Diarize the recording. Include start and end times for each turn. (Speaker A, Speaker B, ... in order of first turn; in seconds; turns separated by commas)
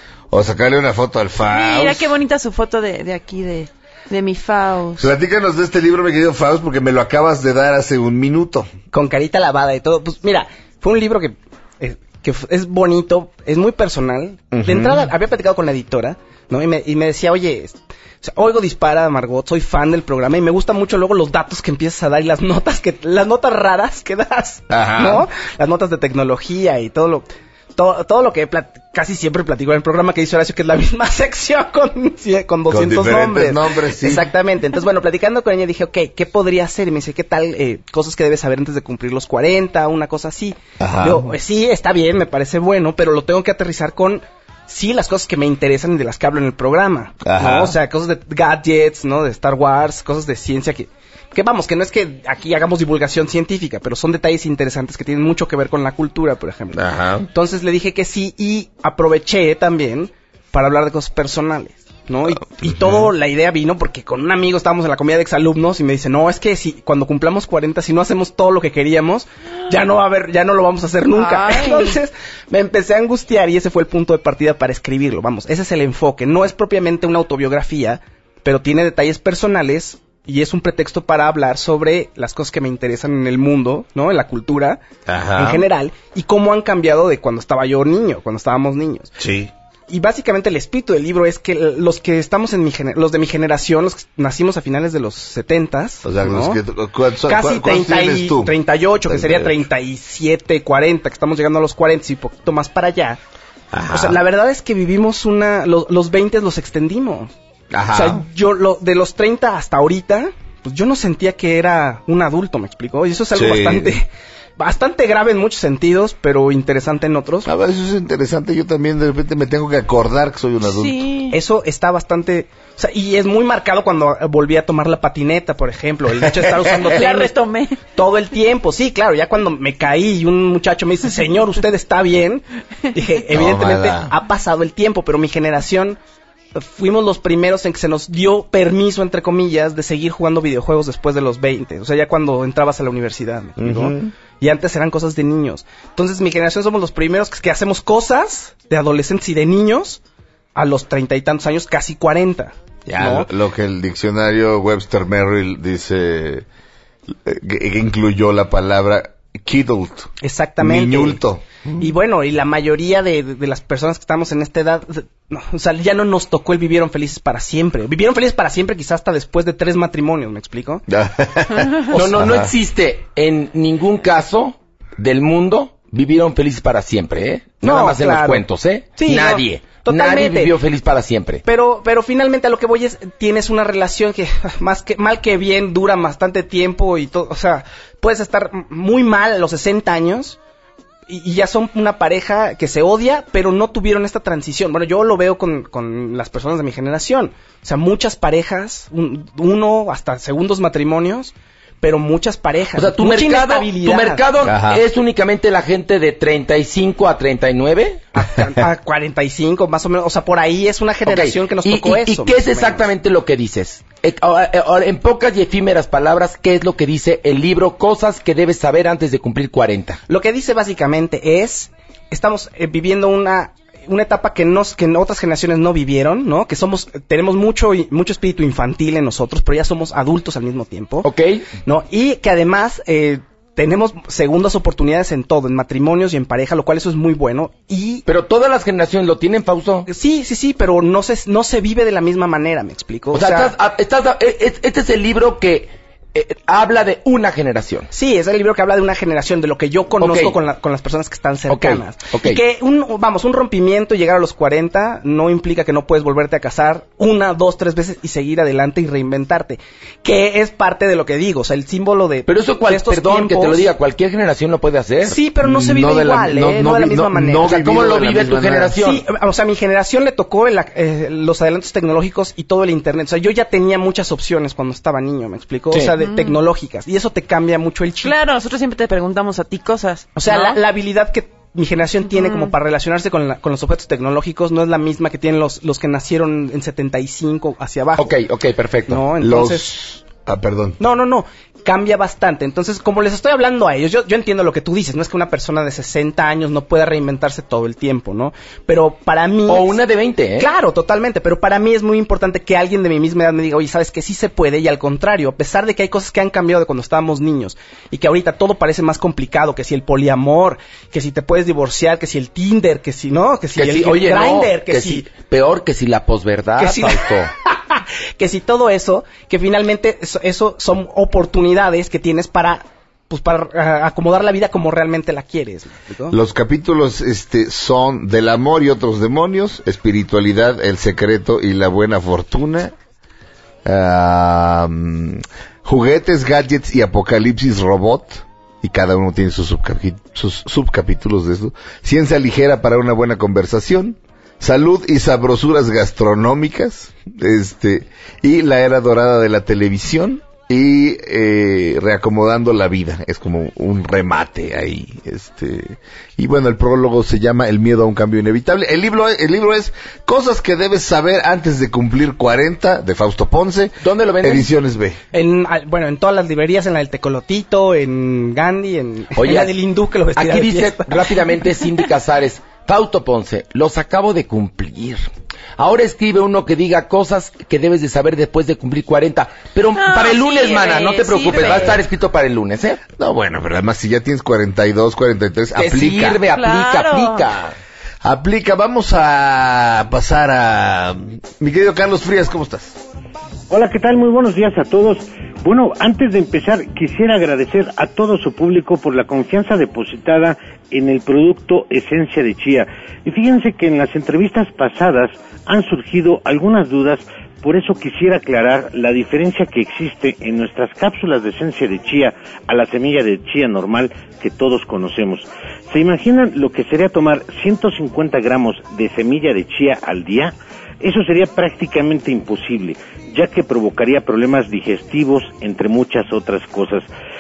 Speaker A: 0.3-2.1, Speaker B: 1.4-5.1, Speaker A: 5.0-8.7, Speaker C: 8.9-84.8, Speaker A: 14.5-15.1, Speaker A: 24.7-25.3, Speaker A: 32.7-34.3, Speaker A: 40.8-41.4, Speaker A: 47.2-47.8, Speaker A: 56.7-57.3, Speaker A: 62.6-63.0, Speaker B: 71.2-72.0, Speaker A: 85.1-85.7, Speaker C: 85.4-89.1, Speaker A: 89.2-89.5, Speaker C: 89.9-96.6, Speaker A: 96.0-98.5, Speaker C: 97.3-103.2, Speaker A: 99.1-99.6, Speaker A: 103.7-104.2, Speaker C: 103.9-107.3, Speaker A: 107.7-108.2, Speaker C: 107.9-114.1, Speaker A: 113.3-114.0, Speaker C: 114.6-117.5, Speaker A: 117.5-121.1, Speaker B: 120.7-121.4, Speaker C: 121.3-127.4, Speaker B: 126.8-127.8, Speaker C: 127.9-136.0, Speaker A: 133.3-134.1, Speaker C: 136.6-150.0, Speaker A: 143.6-144.1, Speaker C: 150.6-153.3, Speaker A: 152.9-156.5, Speaker A: 157.1-161.9, Speaker C: 160.2-161.2, Speaker C: 161.8-170.8, Speaker A: 170.9-172.5, Speaker D: 171.9-181.4, Speaker C: 177.6-178.4, Speaker C: 179.0-180.6, Speaker C: 181.4-190.4, Speaker C: 191.1-204.3, Speaker D: 202.8-208.0, Speaker A: 204.4-204.8, Speaker C: 208.2-212.9, Speaker D: 211.1-220.0, Speaker C: 220.1-231.1, Speaker D: 231.0-231.5, Speaker C: 231.7-238.1, Speaker D: 238.1-239.9, Speaker C: 239.9-243.5, Speaker D: 243.1-247.9, Speaker C: 247.9-263.7, Speaker D: 250.0-250.4, Speaker D: 251.5-252.4, Speaker D: 262.3-265.2, Speaker C: 265.1-267.8, Speaker A: 265.4-268.8, Speaker D: 267.4-269.0, Speaker C: 268.8-278.2, Speaker B: 278.0-280.6, Speaker C: 280.2-288.1, Speaker B: 282.2-282.5, Speaker D: 288.0-289.0, Speaker C: 288.9-289.7, Speaker A: 289.2-290.8, Speaker C: 290.8-299.8, Speaker D: 299.5-300.5, Speaker C: 300.4-315.1, Speaker D: 313.6-317.3, Speaker C: 316.6-317.5, Speaker C: 318.2-326.2, Speaker A: 326.1-332.7, Speaker A: 333.6-365.0, Speaker D: 363.8-364.5, Speaker C: 365.1-371.2, Speaker D: 369.2-369.5, Speaker D: 370.2-375.0, Speaker D: 375.6-382.8, Speaker B: 379.8-381.8, Speaker A: 383.0-386.2, Speaker D: 385.6-387.6, Speaker B: 386.3-387.3, Speaker A: 388.0-392.8, Speaker E: 393.5-426.9